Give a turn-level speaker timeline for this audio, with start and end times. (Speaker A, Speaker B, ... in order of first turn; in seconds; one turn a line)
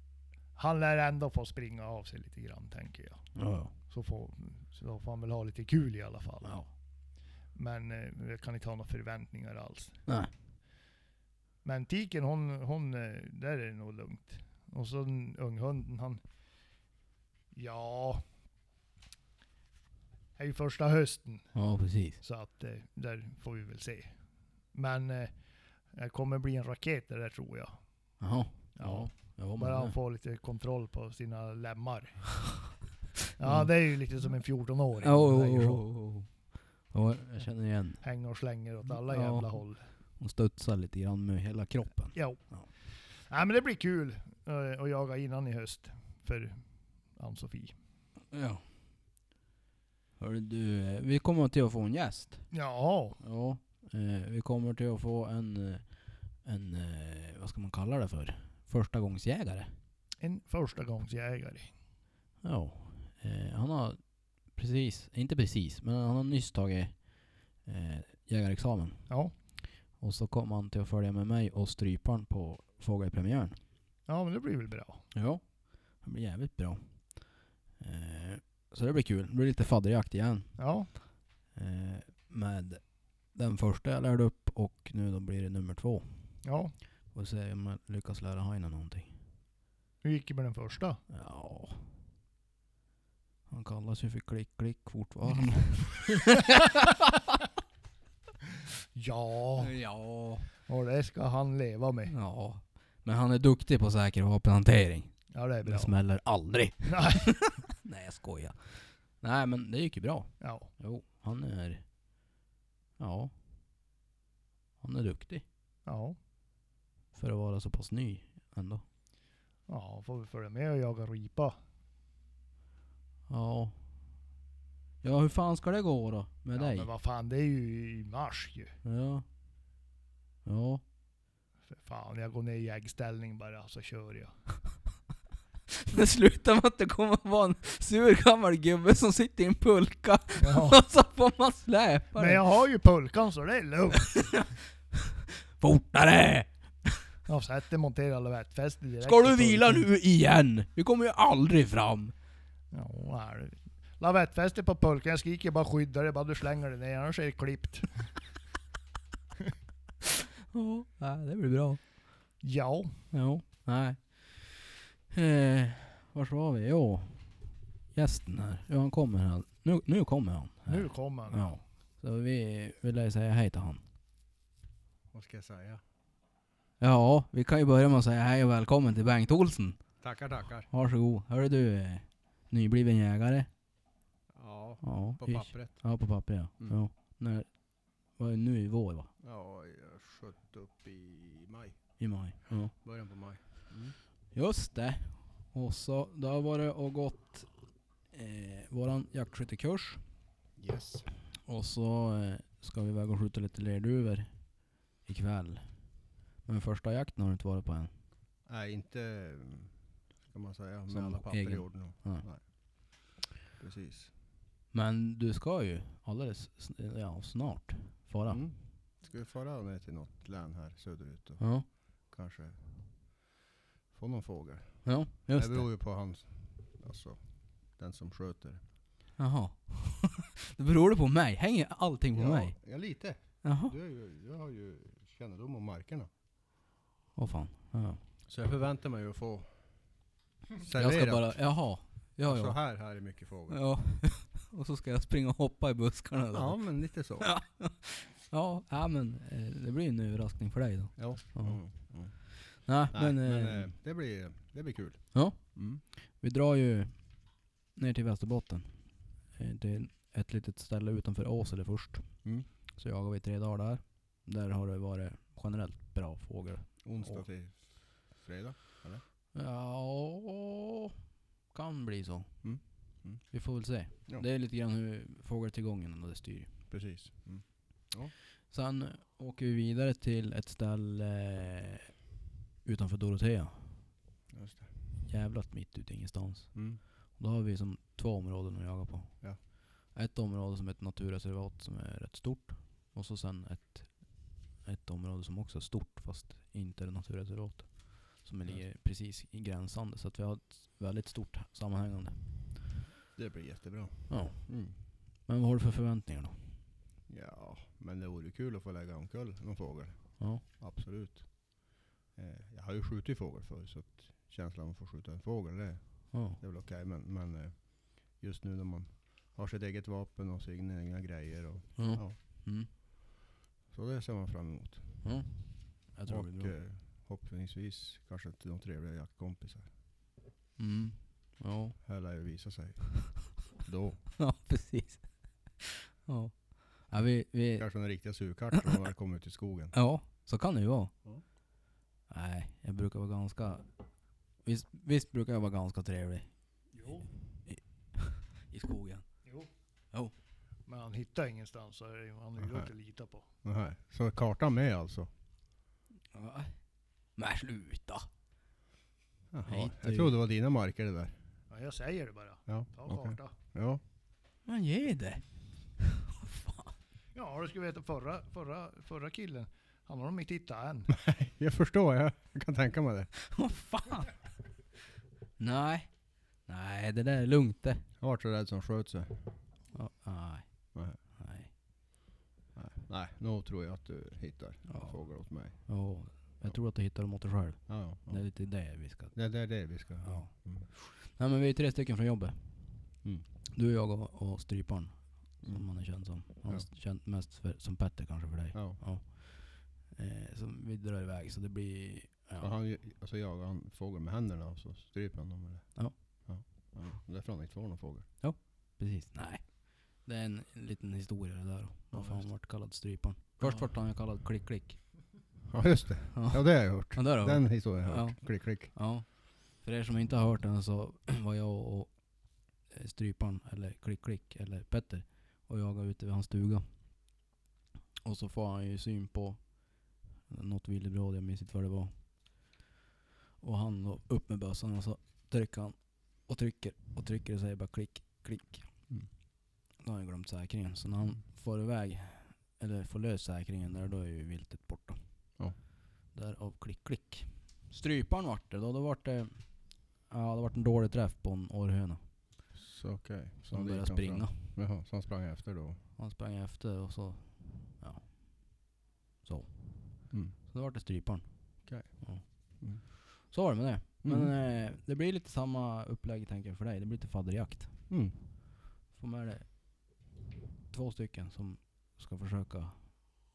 Speaker A: 0.6-3.3
Speaker B: 3.4-3.7
Speaker A: 3.9-6.7
Speaker A: 7.5-10.0
Speaker A: 11.6-16.2
Speaker A: 17.5-18.2
Speaker A: 20.4-21.5
Speaker B: 21.5-22.2
Speaker A: 22.2-24.1
Speaker A: 24.7-25.3
Speaker A: 25.9-27.8
Speaker B: 28.2-29.9
Speaker A: 28.8-32.6
Speaker A: 33.4-35.8
Speaker B: 33.4-33.8
Speaker B: 35.0-38.0
Speaker A: 38.0-39.8
Speaker B: 38.9-39.6
Speaker B: 40.2-42.7
Speaker A: 42.1-42.4
Speaker A: 43.3-46.6
Speaker A: 47.1-47.7
Speaker B: 48.3-48.6
Speaker B: 50.2-52.5
Speaker A: 52.5-53.2
Speaker B: 53.2-59.7
Speaker A: 60.2-61.7
Speaker B: 62.4-69.2
Speaker A: 69.1-69.3
Speaker B: 70.0-73.6
Speaker A: 74.1-75.0
Speaker B: 75.1-81.0
Speaker A: 80.6-80.9
Speaker B: 81.5-86.4
Speaker A: 86.4-86.7
Speaker B: 87.1-89.1
Speaker A: 90.0-91.0
Speaker B: 91.1-91.9
Speaker B: 93.5-97.0
Speaker A: 98.9-99.7
Speaker B: 99.6-100.5
Speaker A: 100.7-102.1
Speaker B: 102.1-111.8
Speaker A: 105.3-105.9
Speaker A: 106.8-107.4
Speaker A: 110.4-110.7
Speaker B: 113.0-113.3
Speaker B: 114.8-115.4
Speaker A: 115.8-116.2
Speaker B: 117.1-118.8
Speaker A: 119.7-121.6
Speaker B: 123.3-123.8
Speaker B: 125.0-126.9
Speaker A: 126.5-128.8
Speaker B: 128.8-129.2
Speaker B: 130.4-130.8
Speaker A: 131.7-134.3
Speaker B: 135.8-142.4
Speaker A: 140.4-140.8
Speaker A: 142.1-144.1
Speaker B: 144.0-144.9
Speaker B: 145.6-147.0
Speaker A: 147.3-149.9
Speaker B: 149.0-152.1
Speaker A: 152.7-158.1
Speaker B: 160.5-161.8
Speaker A: 162.4-163.0
Speaker B: 163.1-173.8
Speaker A: 170.7-171.5
Speaker C: 175.1-175.8
Speaker B: 176.8-179.9
Speaker C: 180.0-180.7
Speaker B: 180.7-183.5
Speaker C: 184.3-185.9
Speaker B: 184.8-187.5
Speaker B: 188.2-189.1
Speaker C: 189.2-191.9
Speaker B: 192.0-192.7
Speaker C: 192.7-193.9
Speaker B: 194.3-197.5
Speaker B: 198.1-200.0
Speaker C: 200.6-201.1
Speaker B: 201.5-205.7
Speaker B: 206.4-207.9
Speaker C: 208.4-212.4
Speaker B: 210.9-212.3
Speaker C: 213.1-214.1
Speaker B: 214.7-218.5
Speaker C: 218.3-223.2
Speaker B: 221.4-221.7
Speaker C: 223.9-228.6
Speaker B: 224.8-225.7
Speaker B: 229.2-232.8
Speaker C: 232.1-236.1
Speaker B: 233.4-233.7
Speaker B: 237.2-238.0
Speaker C: 238.2-239.9
Speaker C: 240.6-241.5
Speaker B: 240.7-251.7
Speaker C: 242.2-243.6
Speaker C: 246.3-247.3
Speaker C: 251.0-255.8
Speaker B: 252.5-253.7
Speaker B: 255.1-257.2
Speaker B: 257.7-267.2
Speaker C: 266.8-269.0
Speaker B: 269.3-270.9
Speaker B: 271.5-272.7
Speaker C: 272.4-273.4
Speaker B: 273.3-276.5
Speaker C: 276.7-278.1
Speaker B: 278.5-282.0
Speaker B: 282.6-283.9
Speaker C: 284.3-284.7
Speaker B: 285.1-302.2
Speaker C: 286.5-286.8
Speaker C: 303.1-304.7
Speaker B: 304.1-306.6
Speaker C: 307.1-322.2
Speaker B: 316.1-316.4
Speaker B: 321.8-322.7
Speaker C: 323.7-325.1
Speaker B: 325.0-326.5
Speaker C: 326.1-329.7
Speaker B: 330.6-331.8
Speaker C: 331.8-334.1
Speaker B: 334.2-338.7
Speaker C: 337.6-339.7
Speaker B: 339.7-340.9
Speaker B: 342.1-343.6
Speaker B: 344.4-346.3
Speaker A: 346.7-347.1
Speaker B: 347.5-349.2
Speaker A: 350.7-353.2
Speaker C: 352.4-352.7
Speaker C: 353.4-355.1
Speaker B: 356.1-358.1
Speaker C: 359.3-361.1
Speaker B: 359.5-360.1
Speaker A: 361.5-363.3
Speaker C: 362.5-363.8
Speaker B: 364.4-365.2
Speaker B: 365.8-366.7
Speaker A: 367.1-370.9
Speaker C: 370.9-373.1
Speaker B: 373.2-374.2
Speaker B: 375.4-377.8
Speaker C: 378.0-379.3
Speaker B: 379.7-381.5
Speaker C: 382.5-385.8
Speaker B: 384.7-392.9
Speaker C: 387.7-388.3
Speaker C: 389.1-390.7
Speaker B: 393.5-402.5
Speaker C: 398.5-398.8
Speaker C: 402.4-408.1
Speaker B: 408.2-415.1
Speaker C: 411.9-412.3
Speaker C: 413.4-413.7
Speaker C: 415.5-418.7
Speaker B: 416.1-427.1
Speaker B: 428.0-432.5
Speaker B: 433.4-438.7
Speaker B: 439.8-445.0
Speaker B: 446.1-452.0
Speaker C: 452.5-455.8
Speaker B: 453.5-454.4
Speaker B: 456.0-458.7
Speaker B: 459.2-467.9
Speaker C: 460.1-460.4
Speaker C: 461.6-462.8
Speaker C: 464.0-464.3
Speaker C: 467.9-468.1
Speaker B: 468.9-470.0
Speaker B: 470.7-473.2